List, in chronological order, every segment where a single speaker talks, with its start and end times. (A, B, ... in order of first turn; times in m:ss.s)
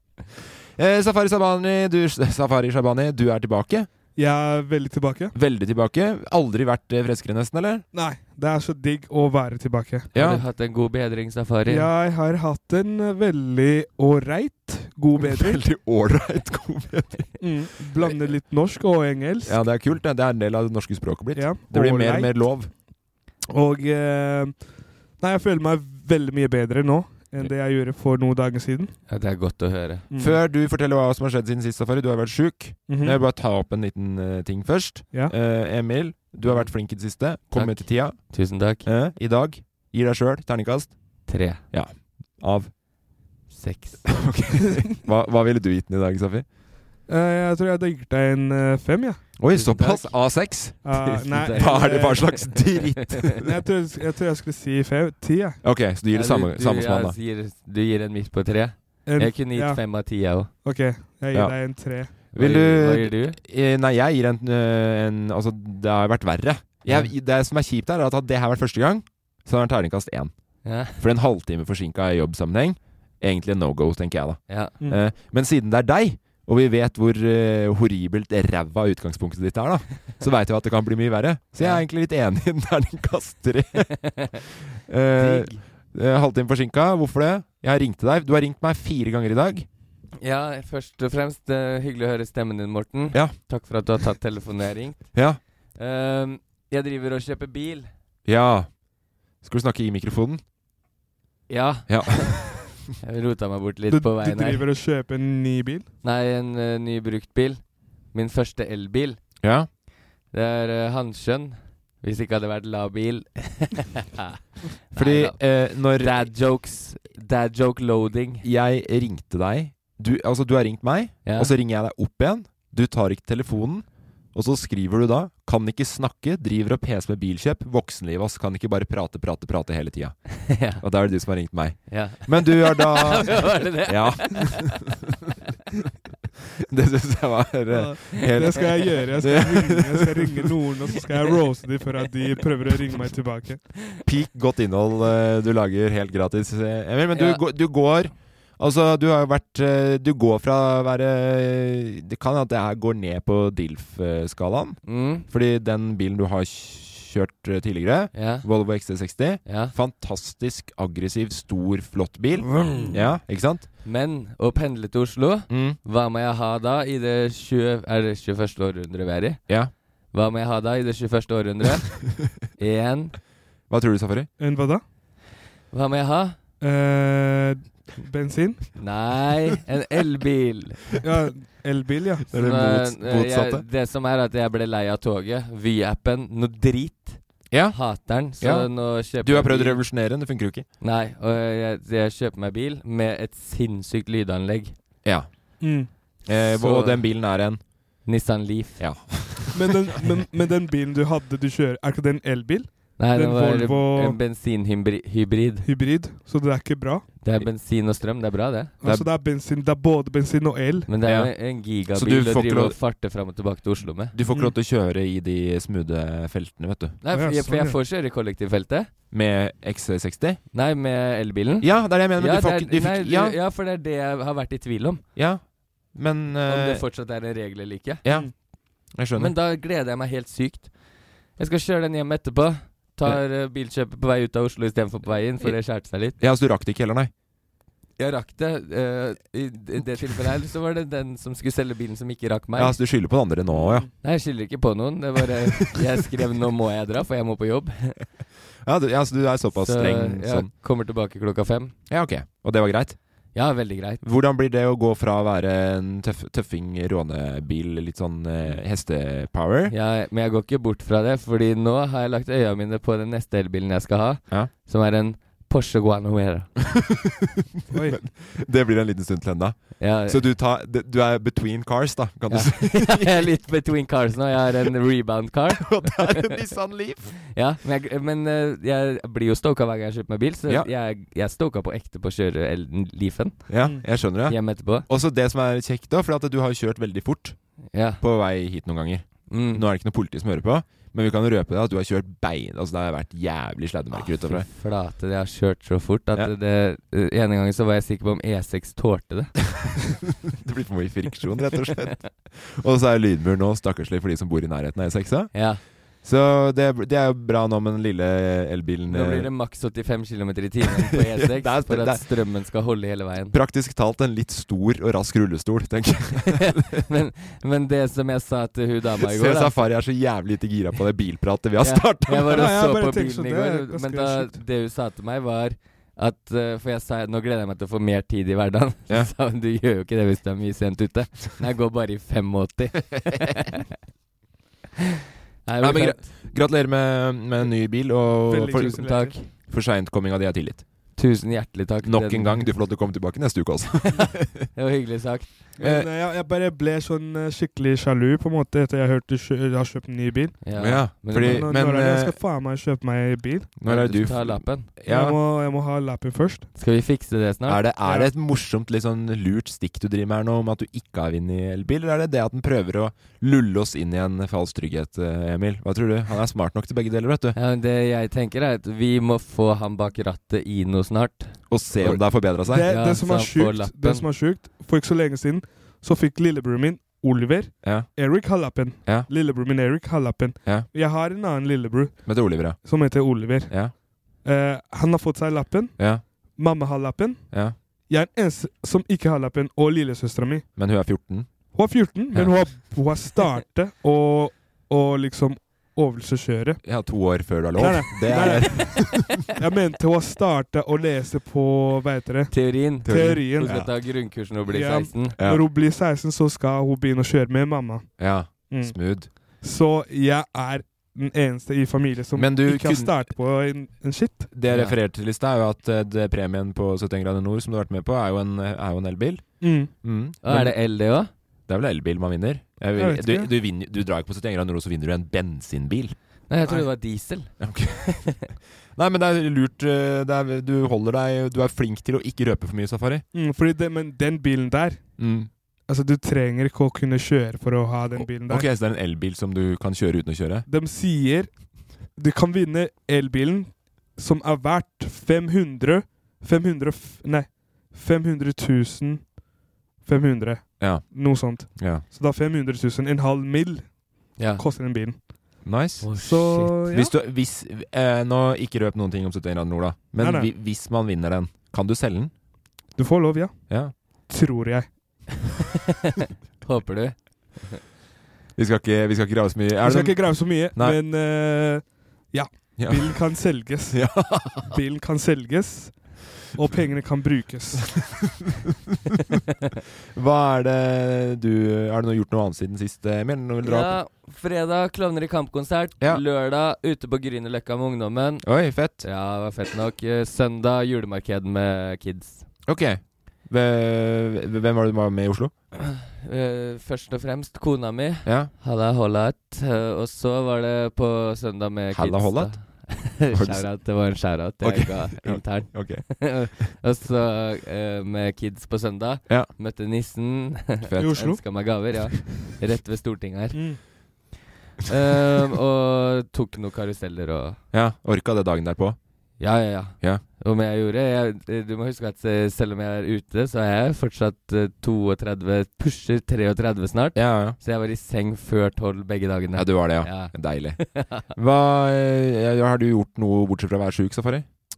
0:00.8-0:03.9 A
0:04.2-0:05.3 B
0:05.4-0:07.8 A
0:07.9-0:10.1 B
0:10.1-0:10.4 A
0:10.2-0:11.9 C
0:11.7-0:15.6 B
0:15.2-0:17.4 A
0:17.4-0:19.6 B
0:19.5-0:22.7 A
0:21.4-0:22.5 B
0:23.5-0:24.6 B
0:25.2-0:28.9 B
0:29.1-0:30.0 C
0:30.1-0:30.4 B
0:30.2-0:38.3 A
0:32.9-0:33.2 B
0:37.5-0:38.9 C
0:38.8-0:41.0 A
0:41.3-0:41.6 C
0:41.7-0:42.7 A
0:43.5-0:44.1 C
0:44.1-0:46.5 A
0:47.1-0:49.3 B
0:49.4-0:53.5 A
0:49.5-0:53.0 C
0:50.8-0:52.6 B
0:53.4-0:55.6 B
0:55.6-0:57.2 A
0:56.1-1:00.5 C
0:59.1-0:59.8 B
1:00.6-1:02.1 B
1:01.3-1:01.6 A
1:02.1-1:10.3 A
1:02.4-1:03.4 C
1:10.6-1:11.0 C
1:11.0-1:24.0 A
1:14.5-1:14.7 C
1:21.6-1:21.8 C
1:24.9-1:29.7 A
1:25.2-1:25.6 C
1:30.2-1:35.2 C
1:35.1-1:35.4 A
1:35.8-1:37.9 C
1:38.2-1:38.8 A
1:39.4-1:40.4 A
1:41.5-1:42.4 C
1:41.9-1:42.7 A
1:43.0-1:44.6 C
1:43.9-1:45.9 B
1:46.0-1:49.2 C
1:49.4-1:49.7 A
1:50.3-1:54.4 C
1:54.9-1:58.4 C
1:55.0-1:56.3 A
1:58.4-2:14.7 A
2:01.2-2:01.5 C
2:10.5-2:10.8 C
2:11.9-2:14.7 C
2:16.7-2:20.5 A
2:17.7-2:23.7 B
2:24.0-2:43.7 A
2:27.1-2:27.4 C
2:34.9-2:35.3 C
2:38.1-2:38.5 C
2:39.4-2:39.8 C
2:43.8-2:49.4 C
2:45.5-2:45.8 A
2:50.1-2:53.1 C
2:53.7-2:54.3 A
2:54.4-2:54.8 B
2:55.7-2:56.4 C
2:56.6-2:58.7 B
2:58.8-3:00.8 C
3:01.0-3:02.3 B
3:02.3-3:03.6 A
3:02.3-3:09.8 C
3:07.5-3:10.7 A
3:10.8-3:14.8 C
3:15.0-3:17.6 A
3:15.6-3:15.9 B
3:16.3-3:17.1 C
3:18.0-3:19.1 C
3:18.8-3:19.6 A
3:19.5-3:24.2 B
3:23.0-3:25.7 C
3:25.6-3:27.1 B
3:27.2-3:28.7 C
3:28.8-3:30.9 B
3:28.8-3:29.1 A
3:30.9-3:34.1 C
3:31.0-3:32.8 A
3:34.1-3:37.0 A
3:37.0-3:38.9 C
3:37.1-3:37.8 B
3:39.1-3:40.4 A
3:40.5-3:45.1 C
3:41.6-3:43.4 A
3:45.2-3:46.9 A
3:46.5-3:48.0 C
3:48.0-3:49.4 A
3:48.1-3:48.3 B
3:49.2-3:56.2 C
3:56.1-3:57.1 A
3:58.0-4:02.8 C
4:02.6-4:03.9 A
4:03.9-4:08.0 C
4:08.6-4:10.5 A
4:09.6-4:11.8 C
4:11.9-4:13.0 A
4:13.3-4:14.0 C
4:14.0-4:19.7 A
4:19.7-4:26.5 C
4:26.7-4:27.1 A
4:27.7-4:28.0 B
4:27.8-4:33.2 A
4:29.8-4:30.3 C
4:32.3-4:36.3 C
4:35.5-4:37.2 A
4:37.3-4:44.9 C
4:43.5-4:47.4 A
4:47.7-4:48.0 C
4:48.0-4:54.5 A
4:49.3-4:49.6 C
4:53.9-4:59.4 C
5:00.3-5:09.3 A
5:05.3-5:05.6 C
5:08.9-5:13.4 C
5:10.6-5:12.1 A
5:13.3-5:16.8 A
5:16.4-5:19.6 C
5:19.0-5:22.6 A
5:21.6-5:33.6 C
5:22.3-5:24.4 B
5:35.4-5:36.1 C
5:35.6-5:40.6 A
5:38.3-5:39.2 B
5:38.5-5:39.3 C
5:41.0-5:42.5 C
5:41.8-5:44.5 A
5:44.6-5:45.3 C
5:45.6-5:50.4 B
5:45.6-5:45.9 A
5:50.4-5:51.5 C
5:50.6-5:52.2 A
5:51.0-5:53.5 B
5:53.6-5:55.2 A
5:53.6-5:54.7 C
5:54.9-5:56.5 B
5:56.6-5:57.6 C
5:57.5-6:07.4 A
6:07.4-6:14.1 C
6:11.5-6:12.7 A
6:12.5-6:23.5 B
6:17.6-6:17.9 A
6:22.1-6:22.7 A
6:23.5-6:23.7 A
6:24.2-6:25.8 B
6:26.4-6:27.3 B
6:27.9-6:30.5 B
6:30.6-6:31.3 A
6:31.5-6:36.6 B
6:32.1-6:32.4 A
6:36.6-6:39.1 A
6:37.6-6:43.6 B
6:42.3-6:45.2 C
6:42.9-6:43.7 A
6:44.5-6:47.9 B
6:45.2-6:45.4 A
6:48.0-6:49.1 A
6:48.5-6:48.8 B
6:49.4-6:54.3 B
6:52.2-6:53.0 A
6:54.3-7:00.6 A
6:54.5-6:54.8 C
6:59.4-6:59.7 B
7:00.2-7:01.1 C
7:01.5-7:06.0 A
7:02.8-7:03.3 B
7:06.3-7:08.2 C
7:07.4-7:08.2 A
7:08.8-7:13.0 A
7:13.1-7:14.9 B
7:15.0-7:15.3 A
7:15.7-7:18.5 B
7:18.0-7:20.5 A
7:20.5-7:21.3 B
7:22.0-7:29.1 B
7:29.8-7:35.0 B
7:30.6-7:31.8 A
7:34.2-7:34.4 C
7:35.4-7:35.9 A
7:35.8-7:36.6 C
7:36.0-7:36.9 B
7:36.7-7:42.1 A
7:40.0-7:40.3 B
7:42.8-7:43.4 B
7:44.1-7:44.7 B
7:46.4-7:47.6 C
7:48.4-7:50.8 A
7:49.6-7:57.7 B
7:52.6-7:53.0 A
7:53.7-7:54.6 A
7:59.9-8:03.8 A
8:03.4-8:12.3 C
8:08.2-8:08.9 A
8:12.5-8:15.3 A
8:15.6-8:33.6 C
8:18.0-8:18.3 A
8:21.7-8:23.5 A
8:24.4-8:26.5 A
8:30.7-8:31.1 A
8:30.8-8:31.2 B
8:33.3-8:33.6 B
8:34.7-8:37.4 C
8:37.5-8:38.8 A
8:39.2-8:51.0 C
8:47.0-8:47.4 A
8:49.4-8:54.3 A